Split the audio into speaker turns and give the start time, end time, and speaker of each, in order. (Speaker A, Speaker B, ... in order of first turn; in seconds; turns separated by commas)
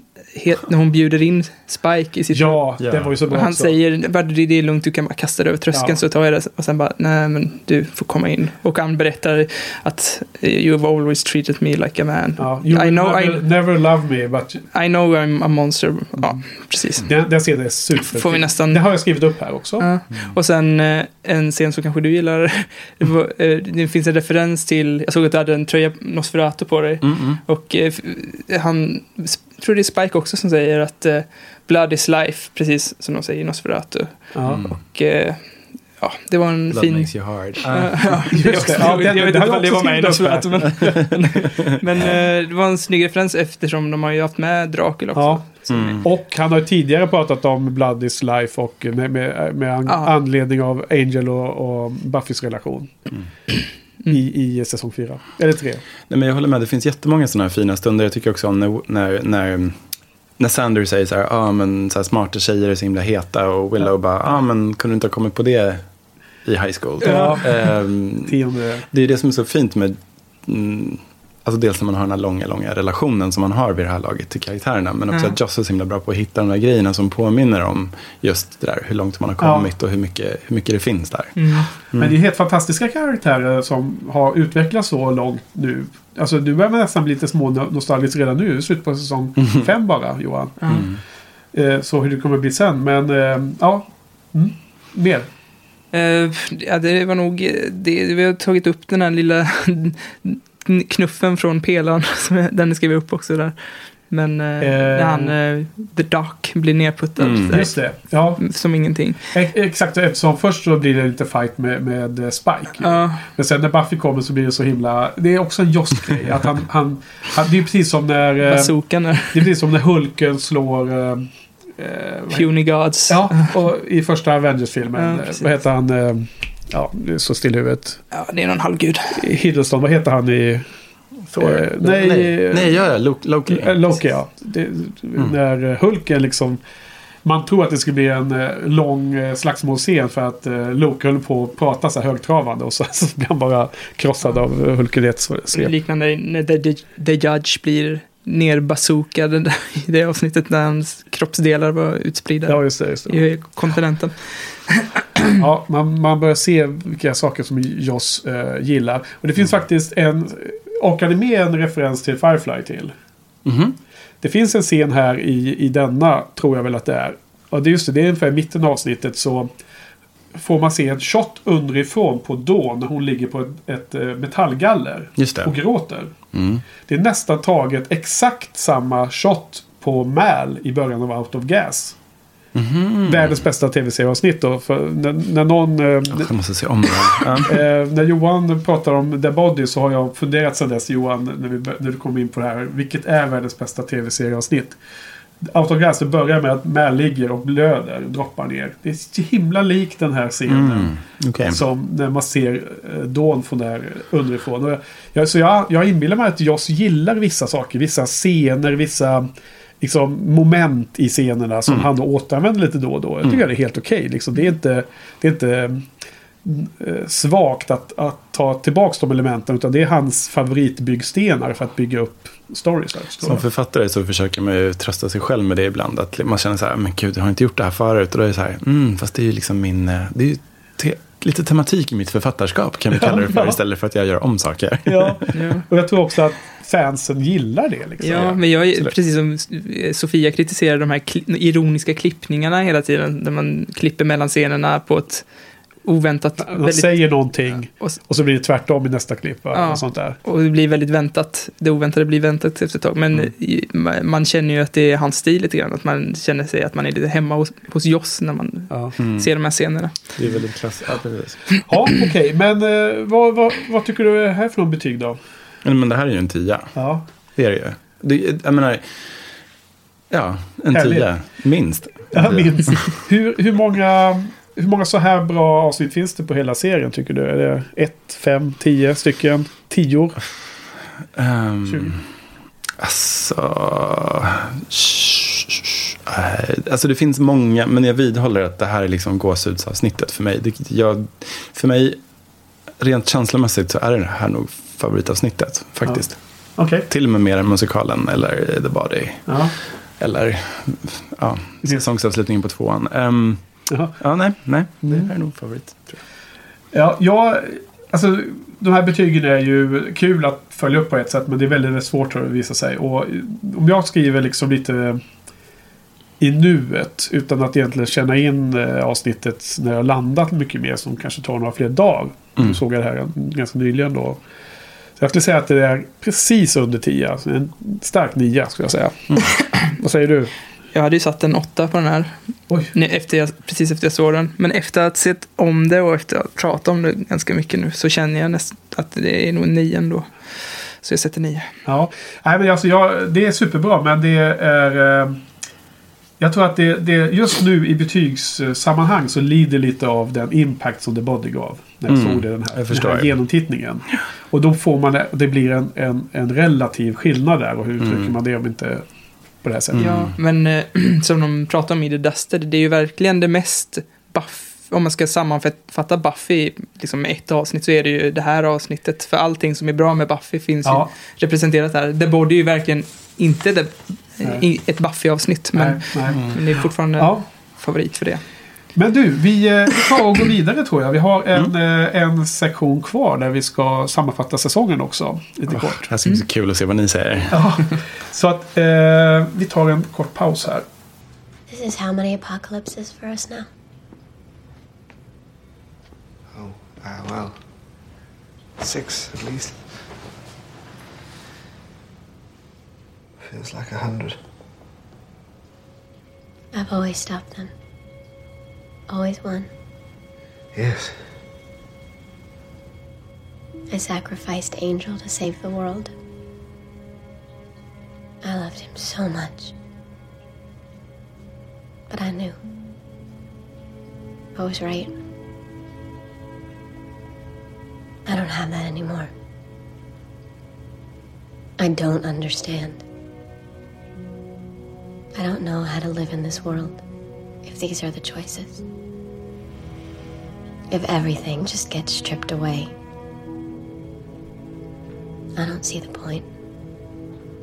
Speaker A: 0.3-2.6, Speaker B: 2.3-3.7, Speaker C: 2.8-3.1, Speaker A: 3.3-13.4, Speaker B: 5.7-6.0, Speaker B: 12.4-14.6, Speaker A: 14.7-17.1, Speaker B: 17.0-19.9, Speaker A: 18.1-18.9, Speaker A: 19.8-35.5, Speaker C: 27.0-27.4, Speaker B: 34.3-34.6, Speaker C: 34.4-34.8, Speaker A: 36.0-46.0, Speaker C: 36.7-38.8, Speaker B: 38.3-40.6, Speaker C: 40.6-42.1, Speaker B: 45.1-45.4, Speaker C: 45.7-46.1, Speaker B: 46.0-52.9, Speaker B: 54.1-55.8, Speaker C: 56.1-59.8, Speaker C: 60.4-65.8, Speaker C: 66.4-68.3, Speaker A: 67.0-67.5, Speaker B: 67.0-67.6, Speaker B: 68.2-68.9, Speaker C: 68.9-82.1, Speaker A: 75.1-75.3, Speaker B: 79.4-79.7, Speaker A: 81.3-81.7, Speaker B: 82.0-90.7, Speaker A: 90.6-90.9, Speaker C: 90.7-91.0, Speaker B: 91.5-95.3, Speaker A: 95.9-103.5, Speaker A: 104.1-109.3, Speaker B: 104.6-105.3, Speaker C: 107.2-107.6, Speaker B: 107.5-108.4, Speaker B: 109.3-118.7, Speaker A: 112.8-113.3, Speaker A: 118.4-119.5, Speaker B: 119.3-122.5, Speaker A: 122.3-123.5, Speaker B: 123.1-128.0, Speaker A: 124.9-125.5, Speaker A: 128.1-129.2, Speaker B: 129.1-130.7, Speaker C: 131.3-133.9, Speaker B: 131.4-132.8, Speaker B: 133.4-136.6, Speaker B: 137.2-145.7, Speaker A: 145.5-155.4, Speaker B: 152.4-153.3, Speaker B: 155.3-162.9, Speaker C: 163.4-163.8, Speaker B: 164.2-169.5, Speaker B: 170.3-176.1, Speaker C: 175.2-175.5, Speaker C: 176.3-176.6, Speaker B: 176.8-182.0, Speaker C: 182.5-183.4, Speaker B: 183.0-186.3, Speaker C: 186.1-187.6, Speaker B: 187.3-194.8, Speaker B: 195.4-209.3, Speaker C: 200.5-201.6, Speaker B: 209.8-215.9, Speaker B: 216.4-223.4, Speaker C: 223.2-235.3, Speaker B: 232.9-233.6, Speaker B: 234.8-238.3, Speaker A: 235.3-235.6, Speaker A: 238.0-245.2, Speaker C: 238.1-238.9, Speaker A: 245.8-247.3, Speaker B: 246.4-250.2, Speaker A: 249.5-260.1, Speaker C: 259.0-259.3, Speaker C: 260.1-261.4, Speaker B: 261.7-265.2, Speaker C: 265.6-266.7, Speaker B: 266.8-267.0, Speaker C: 267.3-269.0, Speaker C: 270.1-272.9, Speaker B: 270.7-271.1, Speaker B: 272.1-280.2, Speaker C: 281.1-282.1, Speaker B: 281.7-281.9, Speaker C: 282.8-292.0, Speaker C: 292.8-296.2, Speaker B: 296.6-296.9, Speaker C: 296.9-299.4, Speaker B: 299.3-299.5, Speaker C: 300.0-303.4, Speaker B: 303.7-303.9, Speaker C: 303.9-306.0, Speaker B: 304.8-305.1, Speaker B: 306.7-315.0, Speaker B: 316.2-324.2, Speaker B: 325.0-330.3, Speaker A: 330.7-332.1, Speaker A: 332.7-341.5, Speaker B: 341.6-345.2, Speaker B: 346.2-358.9, Speaker C: 351.9-353.1, Speaker C: 357.8-358.1, Speaker B: 359.4-359.9, Speaker C: 359.7-360.1, Speaker A: 359.8-378.2, Speaker B: 375.5-376.2, Speaker B: 377.0-377.2, Speaker B: 378.7-385.9, Speaker C: 385.5-387.5, Speaker B: 387.3-390.7, Speaker D: 391.5-393.5, Speaker E: 396.3-397.4, Speaker E: 398.6-399.7, Speaker E: 403.2-404.2, Speaker D: 406.5-407.5, Speaker D: 408.9-409.5, Speaker E: 410.5-411.0, Speaker D: 413.7-415.9, Speaker D: 418.2-419.5, Speaker D: 421.9-422.4, Speaker D: 424.4-424.9, Speaker D: 428.1-429.1, Speaker D: 431.6-432.8, Speaker D: 435.1-436.8, Speaker D: 437.4-438.6, Speaker D: 440.7-442.7, Speaker D: 445.4-446.3